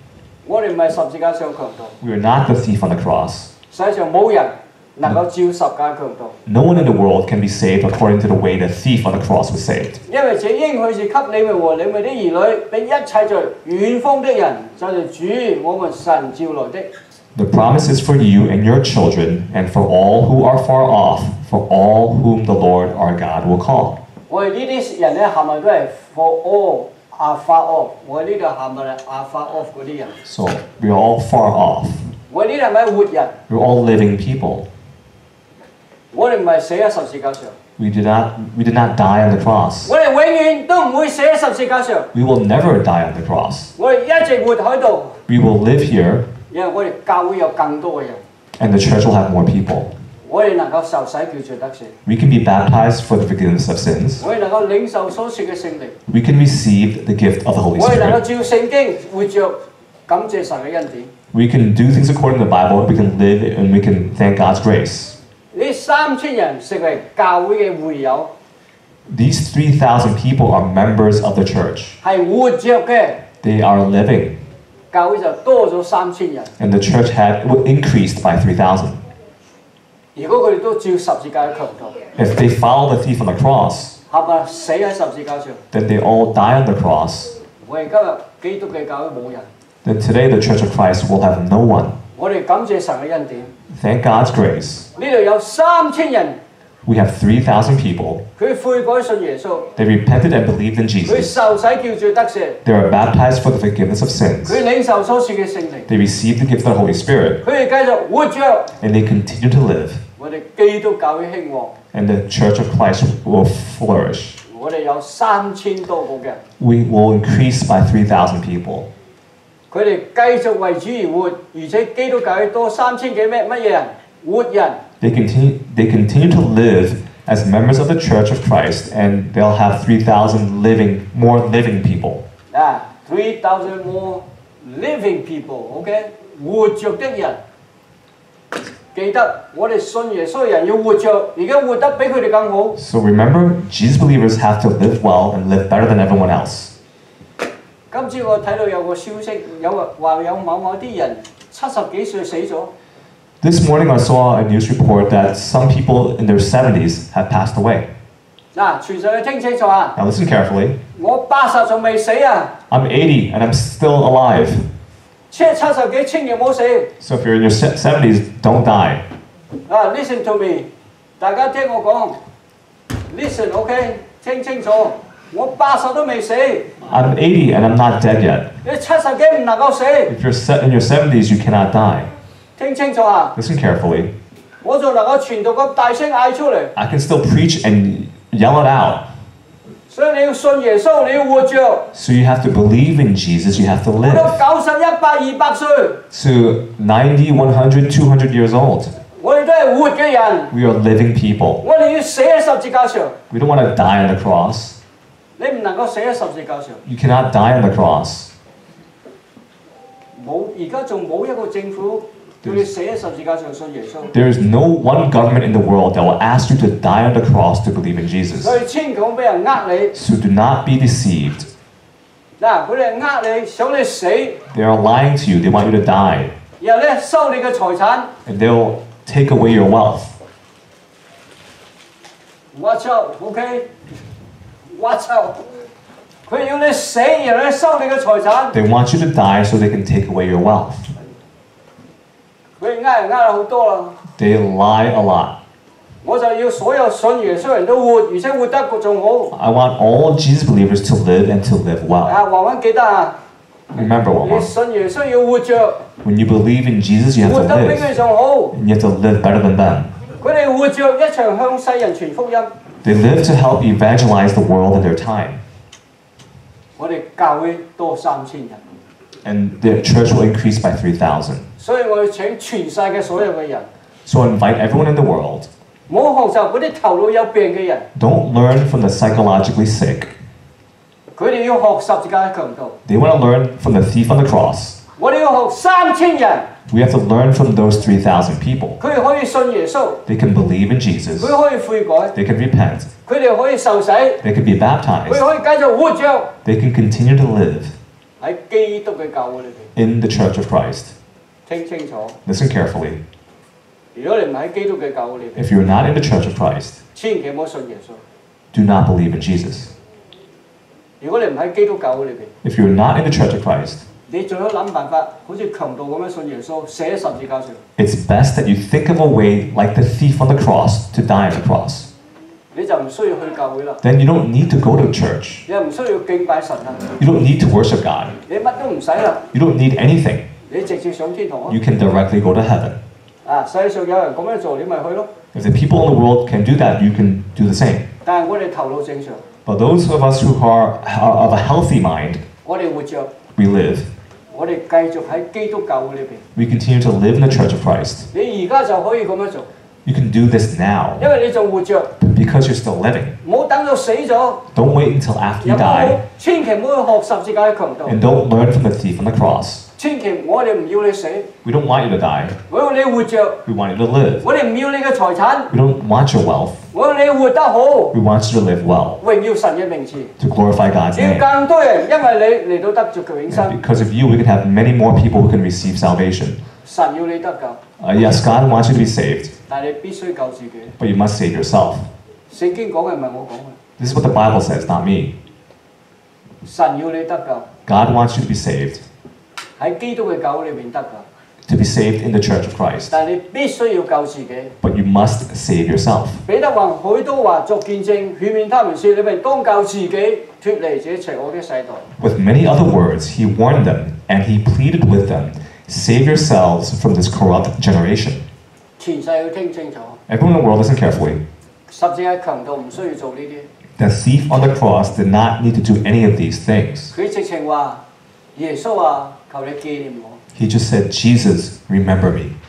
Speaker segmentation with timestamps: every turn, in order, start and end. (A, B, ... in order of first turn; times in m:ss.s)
0:00.4-0:02.0 A
0:02.0-0:03.5 B
0:03.7-0:06.4 A
0:06.5-0:10.0 B
0:10.1-0:16.9 A
0:17.4-0:24.0 B
0:24.3-0:30.2 A
0:30.2-0:32.1 B
0:32.3-0:33.4 A
0:33.5-0:34.7 B
0:36.1-0:37.6 A
0:37.8-0:39.9 B
0:39.8-0:42.1 A
0:42.1-0:43.7 B
0:43.8-0:45.2 A
0:45.3-0:46.3 B
0:46.5-0:48.2 A
0:48.6-0:49.9 B
0:50.2-0:52.0 A
0:52.0-0:54.3 B
0:54.2-0:56.0 A
0:56.1-0:58.2 B
0:57.8-1:01.1 A
1:01.3-1:05.2 B
1:05.5-1:08.3 A
1:09.1-1:12.0 B
1:12.0-1:13.2 A
1:13.4-1:14.4 B
1:14.9-1:16.5 A
1:16.6-1:19.0 B
1:20.2-1:22.1 A
1:22.2-1:24.0 B
1:24.1-1:25.6 A
1:25.7-1:27.3 B
1:27.6-1:29.5 A
1:29.8-1:32.0 B
1:32.2-1:33.5 A
1:33.7-1:34.9 B
1:35.0-1:36.4 A
1:36.8-1:38.2 B
1:38.4-1:39.7 A
1:39.8-1:41.4 B
1:41.1-1:42.6 A
1:42.6-1:44.6 B
1:44.5-1:45.9 A
1:45.9-1:47.4 B
1:47.4-1:48.8 A
1:48.8-1:50.0 B
1:50.2-1:51.8 A
1:51.9-1:54.4 B
1:54.5-1:56.4 A
1:56.6-1:58.9 B
1:59.7-2:04.8 A
2:05.0-2:12.2 B
2:12.5-2:17.4 A
2:18.9-2:22.8 A
2:22.8-2:26.8 B
2:27.9-2:32.7 A
2:33.4-2:37.9 B
2:38.5-2:40.0 A
2:40.0-2:40.8 B
2:41.0-2:42.6 A
2:42.7-2:44.7 B
2:45.3-2:46.9 A
2:47.0-2:49.0 B
2:49.7-2:52.2 A
2:53.1-2:56.8 A
2:56.8-2:58.5 B
2:58.6-3:00.1 A
3:00.1-3:02.1 B
3:02.6-3:03.4 A
3:03.4-3:04.1 B
3:04.6-3:06.7 A
3:06.8-3:09.1 B
3:09.9-3:11.9 A
3:11.9-3:14.4 B
3:14.0-3:16.0 A
3:16.1-3:19.0 B
3:19.2-3:20.5 A
3:20.5-3:21.6 B
3:21.6-3:23.2 A
3:23.3-3:24.8 B
3:25.4-3:26.8 A
3:26.8-3:28.3 B
3:30.2-3:34.1 A
3:34.1-3:38.6 B
3:38.4-3:40.0 A
3:39.9-3:41.5 B
3:42.4-3:44.4 A
3:44.5-3:46.3 B
3:46.6-3:48.1 A
3:48.3-3:50.2 B
3:52.5-3:53.7 A
3:54.7-3:55.4 A
3:56.3-3:58.6 A
3:58.5-4:00.9 B
4:02.6-4:04.0 A
4:04.2-4:05.4 B
4:06.0-4:09.3 A
4:09.3-4:12.2 B
4:12.0-4:13.2 A
4:13.7-4:14.5 B
4:13.8-4:15.8 A
4:16.0-4:18.0 B
4:17.2-4:18.6 A
4:18.5-4:20.0 B
4:20.2-4:22.5 A
4:22.8-4:25.4 B
4:26.8-4:28.6 A
4:29.2-4:31.5 B
4:31.6-4:33.7 A
4:34.1-4:35.5 B
4:35.9-4:37.9 A
4:38.0-4:40.1 B
4:41.2-4:42.8 A
4:42.8-4:44.8 B
4:45.0-4:46.5 A
4:46.7-4:48.8 B
4:48.8-4:50.0 A
4:50.1-4:51.4 B
4:51.2-4:52.2 A
4:52.1-4:52.9 B
4:53.0-4:54.2 A
4:54.2-4:55.3 B
4:55.1-4:56.3 A
4:56.4-4:57.8 B
4:58.2-4:59.7 A
4:59.8-5:01.0 B
5:01.5-5:02.2 A
5:02.2-5:03.0 B
5:03.9-5:05.4 A
5:05.4-5:06.8 B
5:07.0-5:08.0 A
5:08.5-5:09.7 B
5:11.0-5:12.3 A
5:12.4-5:13.8 B
5:14.1-5:17.6 A
5:17.8-5:21.9 B
5:22.5-5:23.8 A
5:23.8-5:25.5 B
5:25.5-5:26.9 A
5:27.0-5:28.2 B
5:28.3-5:29.3 A
5:29.3-5:30.3 B
5:30.5-5:31.6 A
5:31.5-5:32.8 B
5:33.2-5:35.1 A
5:35.3-5:37.9 B
5:38.0-5:39.2 A
5:39.5-5:42.2 B
5:42.4-5:43.1 A
5:43.4-5:43.9 B
5:44.3-5:46.2 A
5:46.4-5:48.1 B
5:48.1-5:49.5 A
5:49.8-5:51.1 B
5:51.0-5:51.9 A
5:52.0-5:53.2 B
5:53.2-5:54.5 A
5:54.5-5:56.0 B
5:55.4-5:58.0 A
5:57.9-5:59.7 B
5:59.8-6:01.3 A
6:01.4-6:02.4 B
6:02.5-6:03.4 A
6:03.5-6:04.3 B
6:04.2-6:05.5 A
6:05.5-6:06.7 B
6:06.7-6:08.0 A
6:07.9-6:09.0 B
6:09.0-6:10.2 A
6:10.2-6:11.3 B
6:10.9-6:13.6 A
6:13.3-6:16.4 B
6:16.6-6:17.6 A
6:17.8-6:19.3 B
6:19.5-6:20.8 A
6:20.8-6:21.9 B
6:22.3-6:23.6 A
6:23.8-6:25.1 B
6:26.4-6:27.5 A
6:27.7-6:28.8 B
6:29.6-6:31.1 A
6:31.5-6:33.0 B
6:32.9-6:34.6 A
6:34.6-6:36.2 B
6:36.3-6:41.9 A
6:42.0-6:48.2 B
6:48.8-6:50.0 A
6:50.1-6:51.2 B
6:51.7-6:53.5 A
6:53.8-6:56.9 B
6:56.9-6:57.8 A
6:58.4-7:00.2 A
7:00.3-7:02.3 B